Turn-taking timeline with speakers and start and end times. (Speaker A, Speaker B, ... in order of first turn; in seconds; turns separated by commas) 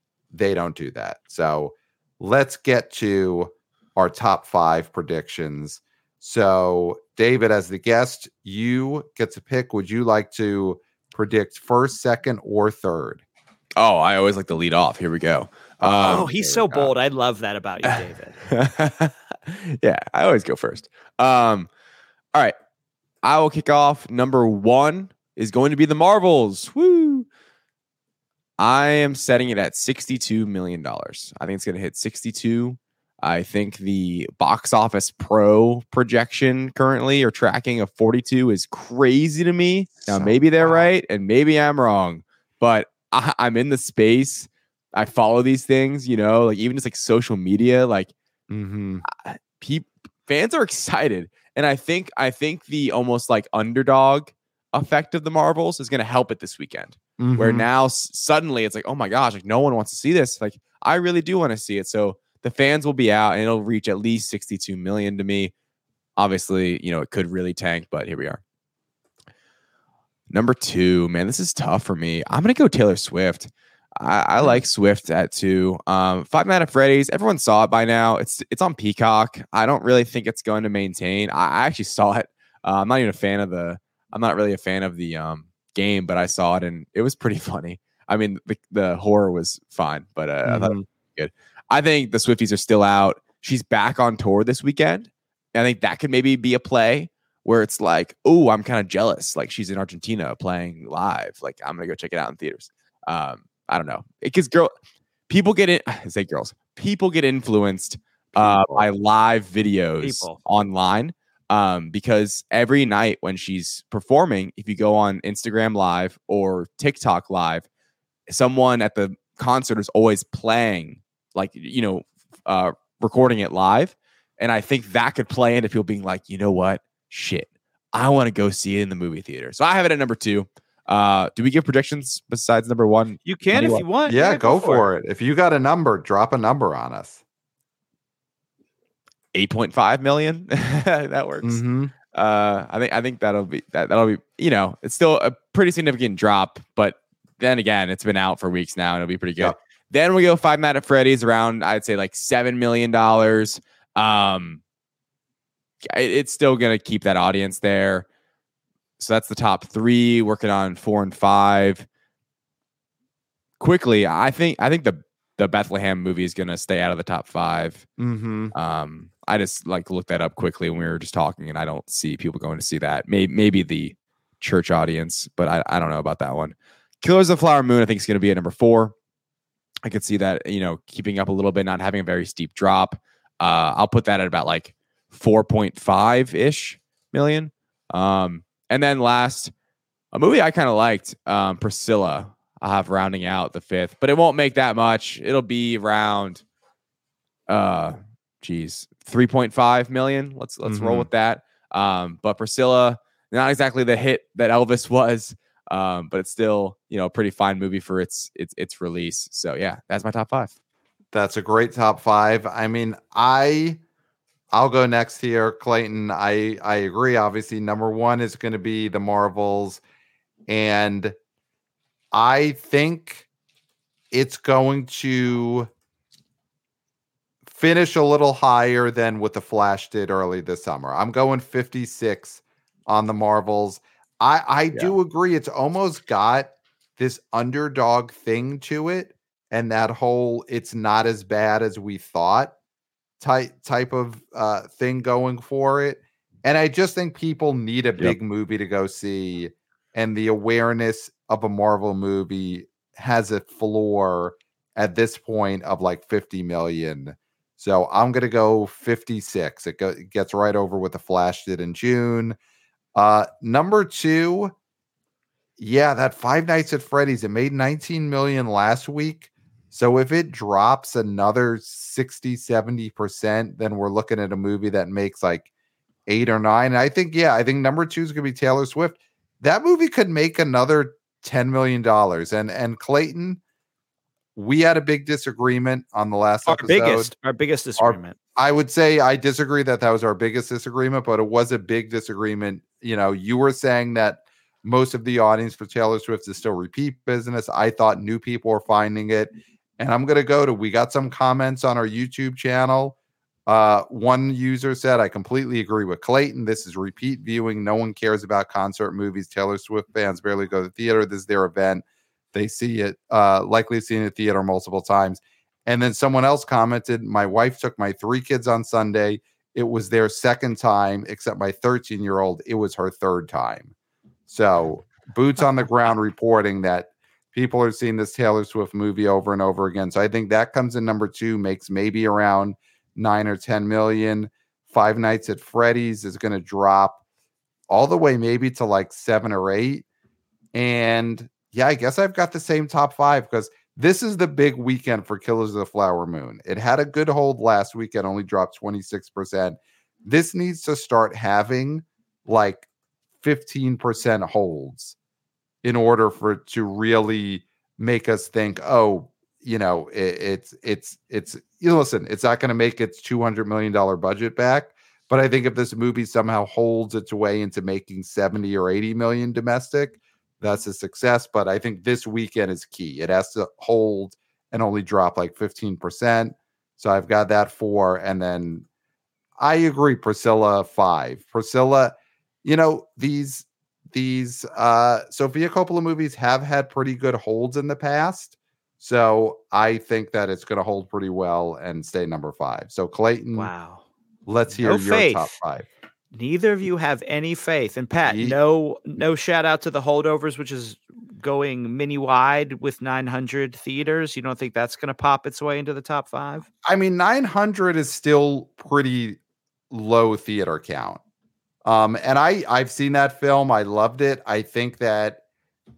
Speaker A: 0.3-13.2, Speaker B: 13.8-16.3, Speaker A: 15.8-16.9, Speaker C: 16.0-18.4, Speaker B: 17.9-21.7, Speaker B: 23.2-27.3, Speaker B: 28.6-48.1, Speaker A: 40.1-40.9, Speaker A: 48.5-49.0, Speaker B: 49.0-65.5, Speaker A: 57.2-57.7, Speaker B: 66.2-68.4, Speaker B: 70.3-104.7, Speaker A: 90.4-90.8, Speaker B: 105.3-117.6, Speaker A: 108.3-108.9, Speaker C: 110.0-110.4, Speaker B: 118.3-133.8, Speaker C: 133.2-134.9, Speaker A: 133.6-137.2, Speaker B: 139.3-154.6, Speaker A: 141.4-141.9, Speaker B: 155.9-158.1, Speaker B: 159.0-161.8, Speaker B: 163.6-167.9, Speaker A: 168.0-168.5, Speaker B: 168.5-178.9, Speaker B: 179.8-189.5, Speaker B: 190.1-196.4, Speaker B: 197.5-210.5, Speaker A: 200.6-201.1, Speaker A: 211.1-213.8, Speaker A: 214.5-219.8, Speaker A: 220.5-221.1, Speaker A: 222.1-223.3, Speaker A: 224.1-225.7, Speaker A: 227.4-242.5, Speaker A: 243.2-262.4, Speaker A: 262.9-264.5, Speaker A: 265.6-275.5, Speaker A: 276.1-283.4, Speaker A: 284.4-287.1, Speaker C: 286.4-288.1, Speaker A: 287.8-302.9, Speaker A: 303.5-323.7, Speaker A: 324.3-337.0, Speaker A: 337.7-339.8, Speaker A: 340.5-352.7, Speaker A: 353.2-354.9, Speaker A: 355.6-378.6, Speaker A: 379.4-393.5, Speaker C: 393.3-393.9, Speaker A: 394.2-395.7, Speaker C: 394.6-395.3, Speaker C: 396.1-406.5, Speaker A: 398.1-398.4, Speaker A: 406.6-409.2, Speaker A: 409.7-411.0, Speaker A: 411.6-415.2